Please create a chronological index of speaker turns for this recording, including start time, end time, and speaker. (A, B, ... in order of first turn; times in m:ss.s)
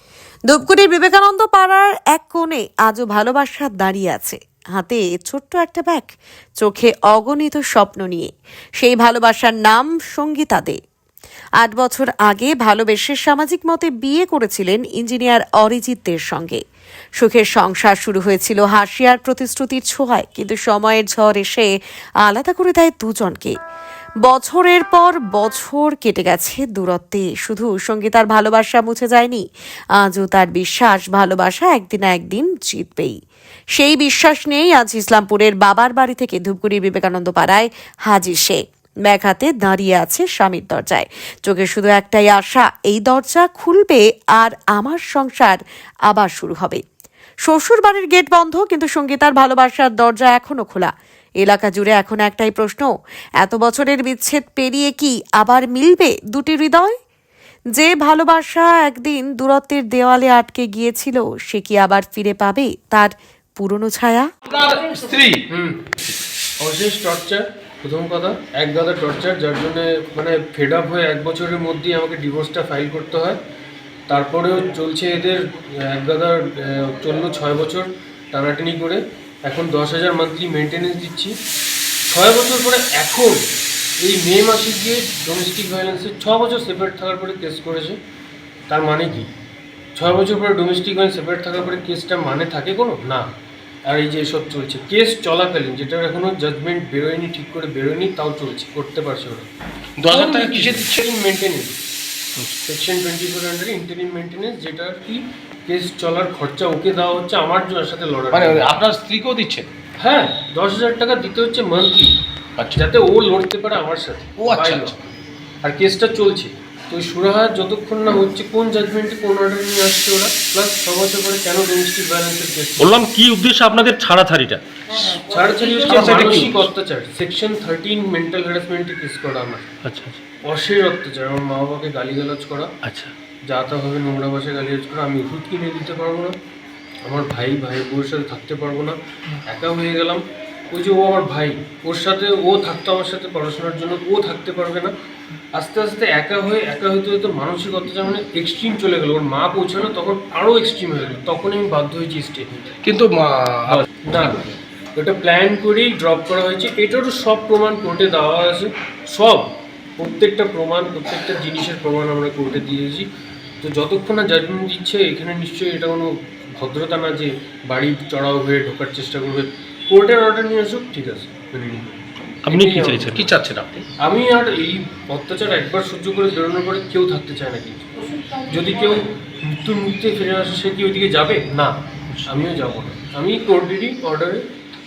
0:00.5-0:10.8 A
0:11.6-0:16.6 A
0:17.2-0:21.7 A
0:22.2-0:23.5 A
0:24.2-0:29.4 A
0:30.0-0:33.2 A
0:33.7-0:46.8 A
0:47.4-0:57.0 A
0:57.7-1:04.3 A
1:04.5-1:05.4 B
1:05.5-1:05.8 C
1:06.6-1:13.4 C
1:14.1-1:21.3 C
1:22.1-1:23.4 C
1:24.0-1:28.0 C
1:28.7-1:29.3 C
1:30.0-1:33.3 C
1:33.9-1:39.5 C
1:40.0-1:41.0 B
1:40.1-1:41.8 C
1:42.7-1:48.8 C
1:48.3-1:49.7 B
1:50.0-1:52.2 C
1:52.7-1:55.0 C
1:54.4-1:54.9 B
1:55.6-2:03.0 C
2:02.8-2:04.6 D
2:05.0-2:09.7 C
2:05.7-2:06.4 B
2:05.9-2:06.6 D
2:09.8-2:10.2 D
2:10.4-2:12.7 C
2:12.8-2:13.1 D
2:13.5-2:16.3 C
2:17.0-2:19.0 C
2:19.5-2:24.9 C
2:25.5-2:32.8 C
2:32.8-2:34.4 B
2:33.7-2:39.4 C
2:40.0-2:43.1 C
2:43.6-2:51.9 C
2:52.4-2:53.8 D
2:52.5-2:53.3 C
2:53.3-2:53.7 B
2:54.0-2:57.9 C
2:58.5-3:01.7 C
3:02.3-3:04.4 C